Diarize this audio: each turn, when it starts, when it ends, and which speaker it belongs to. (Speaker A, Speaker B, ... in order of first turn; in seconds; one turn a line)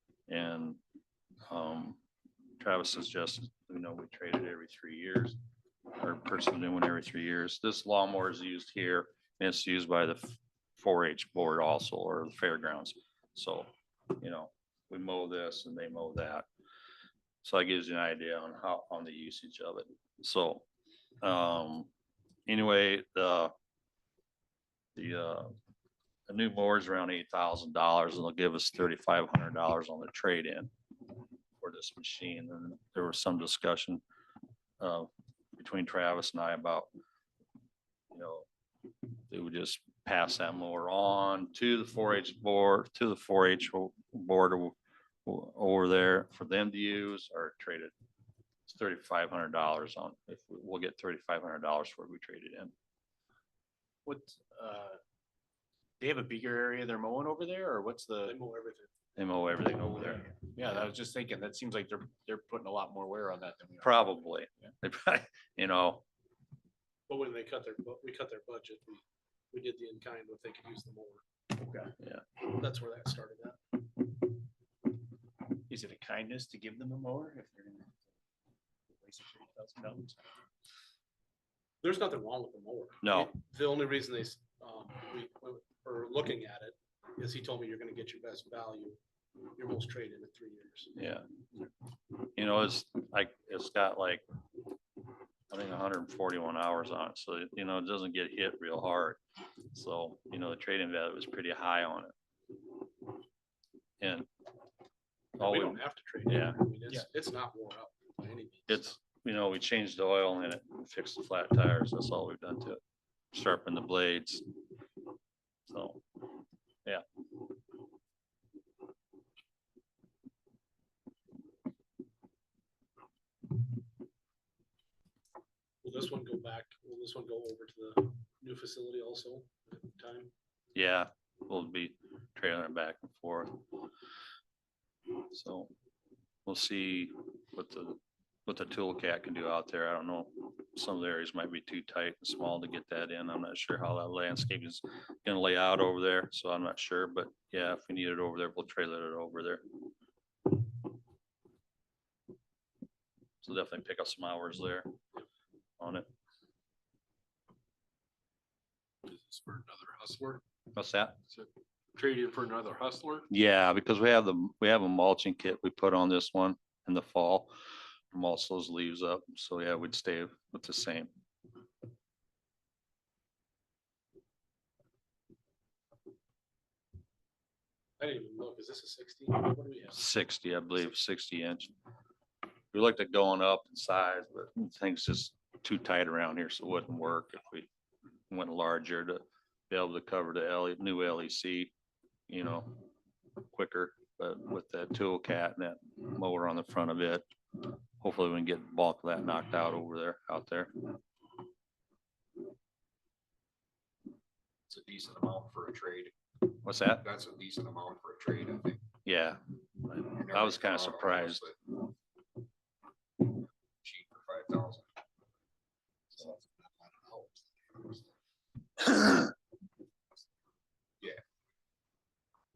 Speaker A: 0.3-0.8
Speaker A: 1.5-2.0
Speaker A: 2.6-5.4
Speaker A: 6.0-16.5
Speaker A: 17.4-20.7
Speaker A: 21.2-21.9
Speaker A: 22.5-23.5
Speaker A: 24.9-25.6
Speaker A: 26.3-30.7
Speaker A: 31.6-34.0
Speaker A: 34.8-36.9
Speaker A: 38.1-38.5
Speaker A: 39.3-47.9
Speaker A: 48.7-52.7
Speaker B: 54.0-55.0
Speaker B: 56.0-58.4
Speaker C: 58.2-58.9
Speaker A: 59.2-60.3
Speaker B: 60.4-64.1
Speaker A: 63.8-66.0
Speaker C: 67.1-71.2
Speaker B: 71.6-71.9
Speaker A: 72.0-72.2
Speaker C: 72.4-73.8
Speaker B: 75.7-78.1
Speaker B: 78.9-80.3
Speaker C: 81.8-89.0
Speaker A: 83.0-83.3
Speaker C: 89.6-90.9
Speaker A: 91.0-91.3
Speaker A: 92.4-94.2
Speaker A: 95.5-99.2
Speaker A: 99.7-102.1
Speaker A: 104.0-104.3
Speaker A: 105.4-106.6
Speaker C: 105.4-108.9
Speaker A: 108.7-112.8
Speaker A: 113.3-114.5
Speaker A: 115.7-116.0
Speaker C: 125.8-130.3
Speaker A: 130.8-133.7
Speaker A: 135.3-135.7
Speaker A: 136.5-149.6
Speaker A: 153.4-155.0
Speaker A: 155.8-156.1
Speaker C: 159.1-160.4
Speaker A: 160.8-161.2
Speaker C: 161.3-163.3
Speaker A: 163.3-167.6
Speaker A: 168.1-171.1
Speaker C: 178.0-180.0
Speaker A: 179.9-181.7
Speaker A: 182.7-187.7
Speaker A: 188.3-191.7
Speaker A: 192.3-192.9
Speaker A: 193.4-200.9
Speaker D: 204.7-206.1
Speaker A: 206.6-207.1
Speaker D: 207.0-208.9
Speaker A: 209.1-211.4
Speaker D: 210.1-211.6
Speaker D: 213.3-214.9
Speaker B: 216.2-217.9